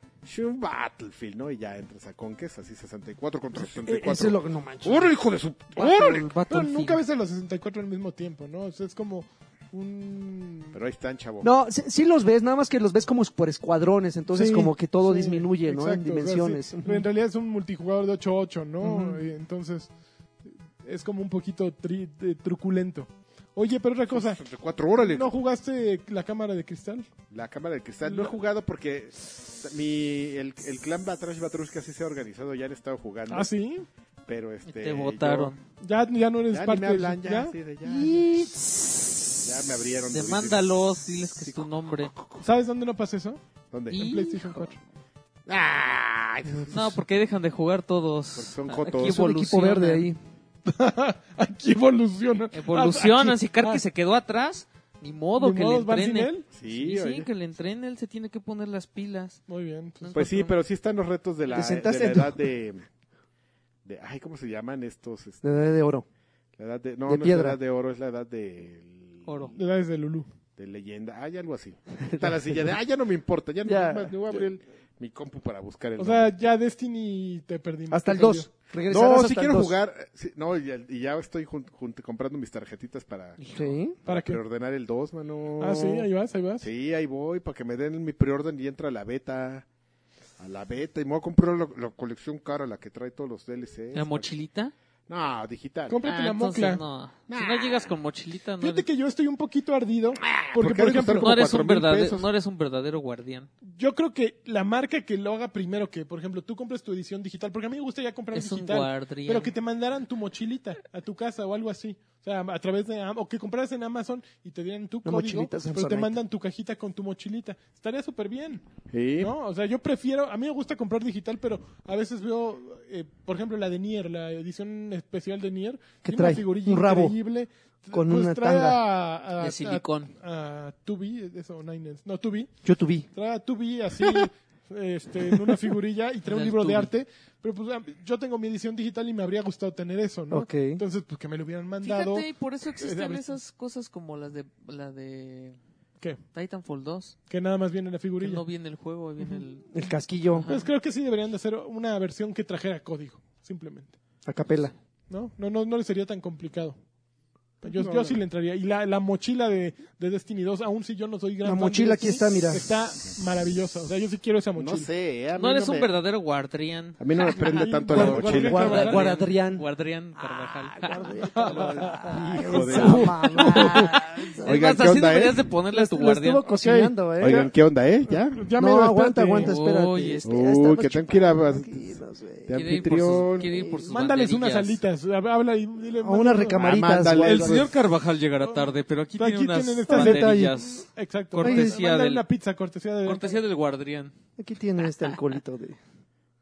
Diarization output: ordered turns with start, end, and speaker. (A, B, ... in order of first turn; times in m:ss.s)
0:00.2-0:06.3 A
0:03.8-0:05.1 B
0:05.8-0:10.8 C
0:05.9-0:07.0 D
0:10.7-0:11.5 A
0:11.4-0:17.0 B
0:14.3-0:19.9 C
0:18.8-0:19.2 B
0:20.8-0:24.4 C
0:24.1-0:25.3 A
0:25.1-0:27.1 C
0:27.3-0:33.5 A
0:28.1-0:28.3 C
0:33.3-0:33.9 C
0:34.3-0:35.5 A
0:34.6-0:35.6 D
0:35.8-0:37.6 C
0:36.5-0:38.3 A
0:37.8-0:39.2 B
0:39.4-0:40.8 A
0:40.1-0:42.1 D
0:41.4-0:42.5 A
0:42.4-0:43.4 C
0:43.7-0:44.0 A
0:43.9-0:44.8 D
0:43.9-0:44.8 C
0:45.5-0:47.0 A
0:46.7-0:50.1 D
0:48.4-0:49.3 A
0:49.0-0:50.2 B
0:50.7-0:53.8 C
0:52.5-0:59.4 D
0:55.4-0:56.4 C
0:56.5-0:57.3 A
0:59.5-1:00.3 C
1:00.0-1:00.6 D
1:00.2-1:02.8 A
1:01.5-1:02.3 B
1:03.8-1:05.4 A
1:05.4-1:06.0 B
1:06.6-1:09.6 A
1:07.1-1:07.6 B
1:09.3-1:09.5 D
1:09.5-1:10.3 C
1:10.6-1:16.3 A
1:12.0-1:12.3 B
1:13.7-1:14.1 B
1:16.0-1:18.5 C
1:17.9-1:19.8 B
1:18.9-1:23.5 A
1:23.5-1:24.0 B
1:24.0-1:26.1 A
1:24.1-1:24.4 C
1:25.6-1:26.7 C
1:26.6-1:29.7 A
1:30.4-1:34.3 A
1:33.9-1:34.7 D
1:35.1-1:36.0 A
1:35.9-1:36.8 C
1:36.0-1:38.9 D
1:37.3-1:37.9 A
1:38.6-1:41.5 C
1:40.2-1:42.3 A
1:41.2-1:43.5 D
1:43.7-1:58.6 C
1:48.3-1:49.5 D
1:55.0-1:56.2 B
1:58.9-1:59.3 A
1:59.2-2:12.5 C
2:06.0-2:07.2 B
2:07.9-2:08.8 B
2:09.4-2:10.1 D
2:12.6-2:13.1 B
2:13.1-2:23.2 C
2:16.3-2:16.9 D
2:20.3-2:20.8 B
2:21.8-2:25.6 D
2:26.3-2:27.2 D
2:27.3-2:28.4 C
2:28.2-2:30.7 D
2:29.7-2:30.5 B
2:30.5-2:34.0 C
2:34.2-2:34.7 B
2:35.1-2:36.8 C
2:37.6-2:44.9 C
2:37.7-2:38.2 B
2:41.4-2:42.7 B
2:44.6-2:45.9 A
2:45.4-2:56.4 D
2:47.0-2:48.9 A
2:47.5-2:49.1 C
2:47.9-2:49.6 B
2:50.2-2:54.6 B
2:51.4-2:53.9 C
2:51.8-2:53.8 A
2:54.4-2:55.4 A
2:55.7-2:57.4 B
2:56.6-2:57.5 C
2:57.2-2:58.4 A
2:58.1-2:59.5 C
2:58.6-3:02.6 B
2:59.4-3:00.2 D
3:00.2-3:03.5 A
3:02.5-3:04.8 D
3:03.4-3:04.0 B
3:03.9-3:06.7 C
3:06.0-3:07.7 B
3:06.5-3:07.8 A
3:07.1-3:12.2 D
3:08.4-3:13.4 C
3:09.9-3:10.6 B
3:11.4-3:11.8 B
3:13.0-3:14.1 D
3:14.4-3:15.8 B